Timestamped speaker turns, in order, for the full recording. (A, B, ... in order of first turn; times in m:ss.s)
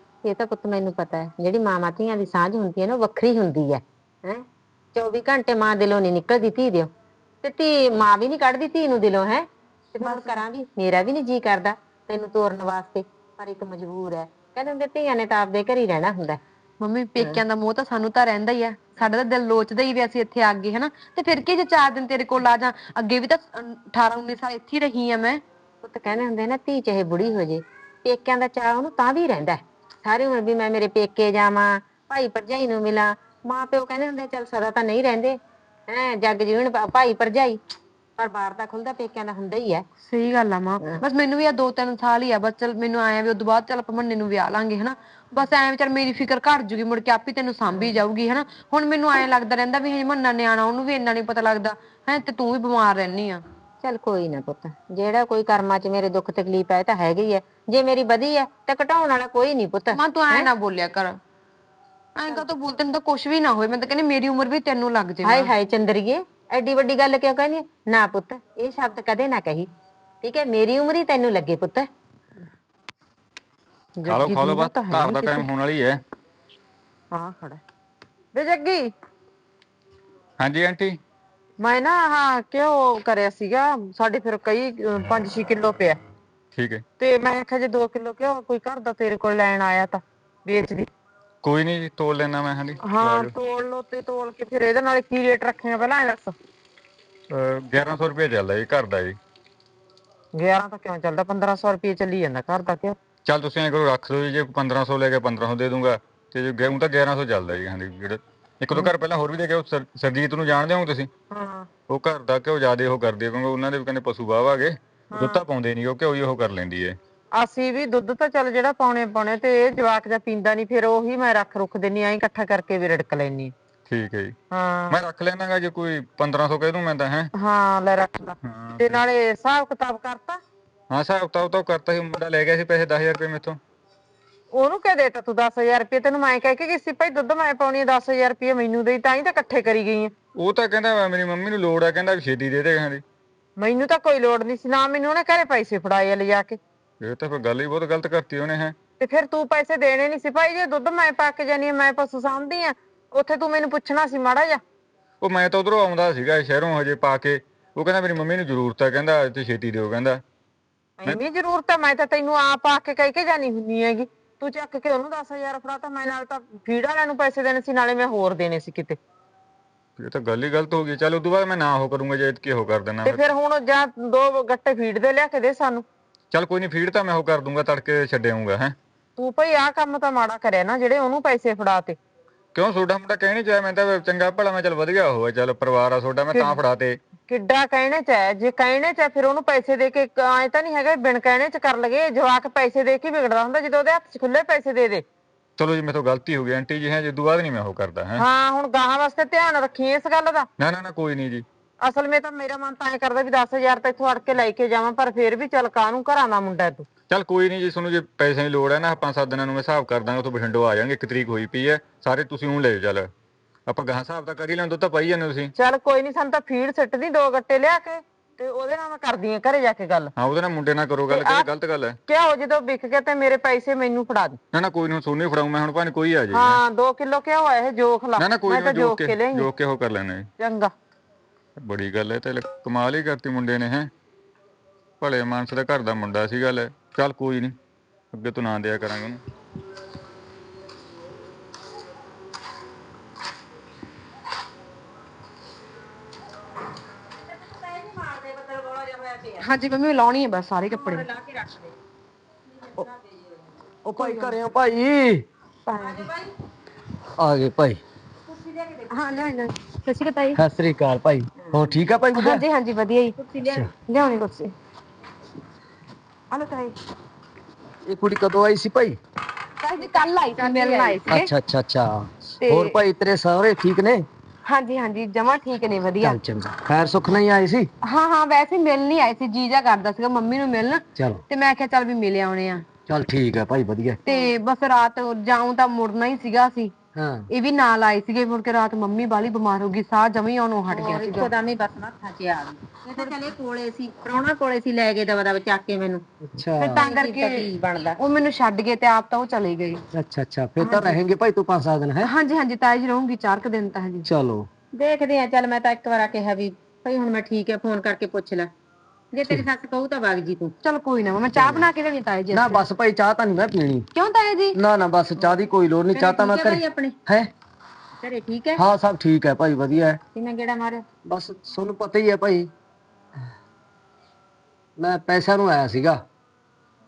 0:00.2-0:06.9 A
0:07.4-0:16.4 A
0:10.0-0:10.4 B
0:16.8-0:25.4 B
0:25.8-0:37.6 A
0:38.2-0:39.8 A
0:40.0-0:53.4 B
0:53.8-1:00.5 A
0:59.9-1:01.2 B
1:02.2-1:05.5 B
1:05.2-1:09.7 A
1:10.2-1:11.9 A
1:14.0-1:15.4 C
1:14.0-1:16.0 D
1:17.1-1:17.6 C
1:18.3-1:18.9 C
1:20.4-1:21.0 D
1:21.6-1:26.0 C
1:26.5-1:26.8 D
1:27.0-1:30.9 C
1:31.4-1:33.3 D
1:32.8-1:36.3 C
1:37.3-1:39.2 D
1:40.3-1:43.0 C
1:43.2-1:51.1 D
1:51.3-1:51.7 C
1:51.9-1:57.0 D
1:55.1-1:55.4 C
1:57.3-2:03.5 C
2:03.9-2:04.3 D
2:04.5-2:05.0 C
2:04.9-2:07.3 D
2:07.3-2:10.4 C
2:08.4-2:09.0 D
2:10.9-2:13.6 D
2:14.5-2:20.1 C
2:20.4-2:23.0 D
2:23.6-2:26.6 C
2:27.0-2:28.7 D
2:29.0-2:34.6 C
2:35.2-2:40.2 D
2:41.0-2:49.0 C
2:50.0-2:53.2 D
2:53.0-2:55.8 C
2:56.3-2:58.7 D
2:59.2-3:02.0 C
3:02.5-3:07.0 D
3:06.3-3:06.6 C
3:07.3-3:15.0 C
3:15.6-3:18.2 D
3:18.2-3:20.5 C
3:20.6-3:21.4 D
3:21.8-3:26.9 C
3:27.1-3:33.1 D
3:33.7-3:35.5 D
3:35.6-3:40.1 C
3:40.2-3:42.0 D
3:41.1-3:41.5 C
3:42.1-3:44.4 C
3:44.5-3:46.6 D
3:46.3-3:49.5 C
3:48.2-3:50.3 D
3:50.4-3:50.7 C
3:51.6-3:53.9 D
3:55.0-3:57.5 D
3:58.1-3:59.2 D
4:07.2-4:09.4 A
4:09.4-4:11.1 B
4:10.7-4:11.7 A
4:12.4-4:13.7 A
4:13.8-4:15.2 E
4:14.0-4:14.4 B
4:15.6-4:16.0 B
4:15.8-4:16.3 A
4:17.2-4:17.8 E
4:18.3-4:19.1 A
4:18.9-4:20.4 B
4:20.4-4:22.4 E
4:21.4-4:21.7 A
4:22.1-4:23.2 B
4:23.2-4:23.7 A
4:23.4-4:23.7 E
4:23.9-4:24.5 B
4:26.3-4:26.7 B
4:27.8-4:29.0 E
4:29.6-4:31.3 B
4:29.8-4:31.1 A
4:31.1-4:34.0 E
4:32.4-4:32.8 B
4:34.4-4:36.2 B
4:36.0-4:37.7 E
4:37.8-4:42.6 B
4:41.0-4:41.2 E
4:42.9-4:44.0 E
4:44.0-4:46.7 B
4:44.1-4:44.3 A
4:46.9-4:47.3 E
4:47.3-4:51.3 B
4:50.7-4:56.0 A
4:56.2-4:56.8 E
4:56.6-4:57.5 B
4:56.6-4:58.0 A
4:58.0-4:59.8 B
4:59.9-5:02.1 E
5:00.6-5:01.0 B
5:02.0-5:04.1 B
5:04.0-5:04.5 E
5:04.7-5:08.5 A
5:09.1-5:10.5 A
5:10.6-5:12.6 B
5:11.4-5:11.7 E
5:12.3-5:13.8 E
5:13.9-5:14.6 B
5:14.5-5:17.3 E
5:15.9-5:17.0 A
5:18.0-5:18.6 A
5:18.6-5:20.0 E
5:20.1-5:20.8 A
5:21.0-5:22.5 E
5:24.8-5:26.0 E